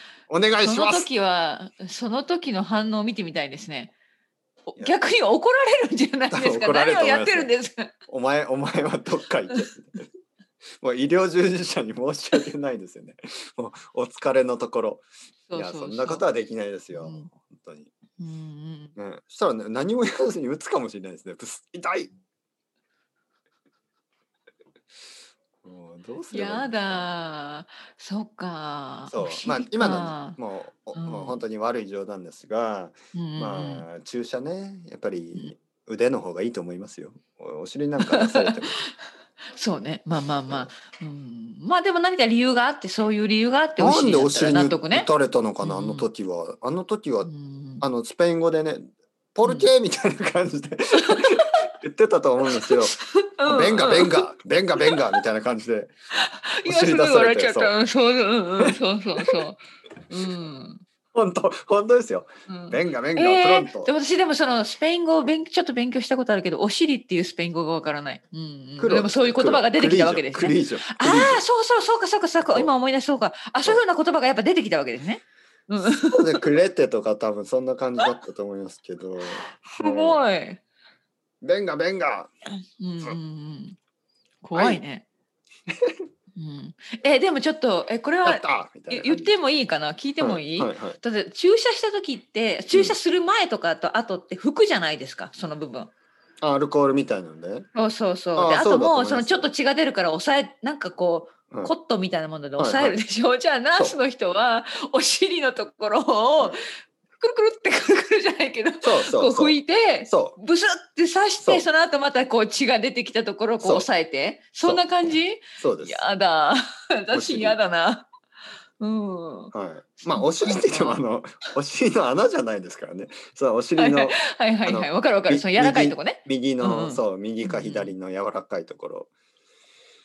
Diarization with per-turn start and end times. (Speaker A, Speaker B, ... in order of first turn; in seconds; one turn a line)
Speaker A: 0.3-1.1
Speaker B: 0.6-3.9
Speaker B: 4.7-7.9
Speaker A: 6.3-7.5
Speaker A: 8.1-10.1
Speaker A: 10.8-17.9
Speaker B: 15.5-16.2
Speaker B: 16.9-17.3
Speaker B: 18.2-18.9
Speaker A: 19.0-22.1
Speaker A: 25.6-27.1
Speaker B: 26.3-30.4
Speaker A: 29.1-38.8
Speaker B: 30.9-31.4
Speaker B: 33.1-33.9
Speaker B: 38.0-38.5
Speaker B: 39.5-45.1
Speaker A: 43.8-47.3
Speaker B: 45.6-46.1
Speaker B: 47.2-47.8
Speaker A: 47.8-55.9
Speaker B: 49.4-49.7
Speaker B: 51.0-51.4
Speaker B: 52.5-54.2
Speaker B: 54.8-55.0
Speaker B: 56.2-60.8
Speaker A: 56.6-57.8
Speaker A: 61.1-63.9
Speaker B: 62.5-76.4
Speaker A: 68.8-71.5
Speaker A: 75.9-80.2
Speaker B: 79.6-80.6
Speaker A: 81.4-82.3
Speaker B: 82.8-83.8
Speaker B: 84.4-85.0
Speaker A: 84.5-84.8
Speaker B: 86.4-95.9
Speaker A: 88.2-89.4
Speaker A: 90.2-91.0
Speaker A: 96.4-97.7
Speaker B: 97.8-106.6
Speaker A: 98.4-99.5
Speaker A: 102.6-103.0
Speaker A: 103.7-104.0
Speaker B: 107.2-118.1
Speaker A: 108.8-110.4
Speaker A: 113.6-113.9
Speaker A: 114.6-116.0
Speaker A: 117.1-117.6
Speaker B: 118.8-121.0
Speaker A: 119.5-129.1
Speaker B: 123.8-127.9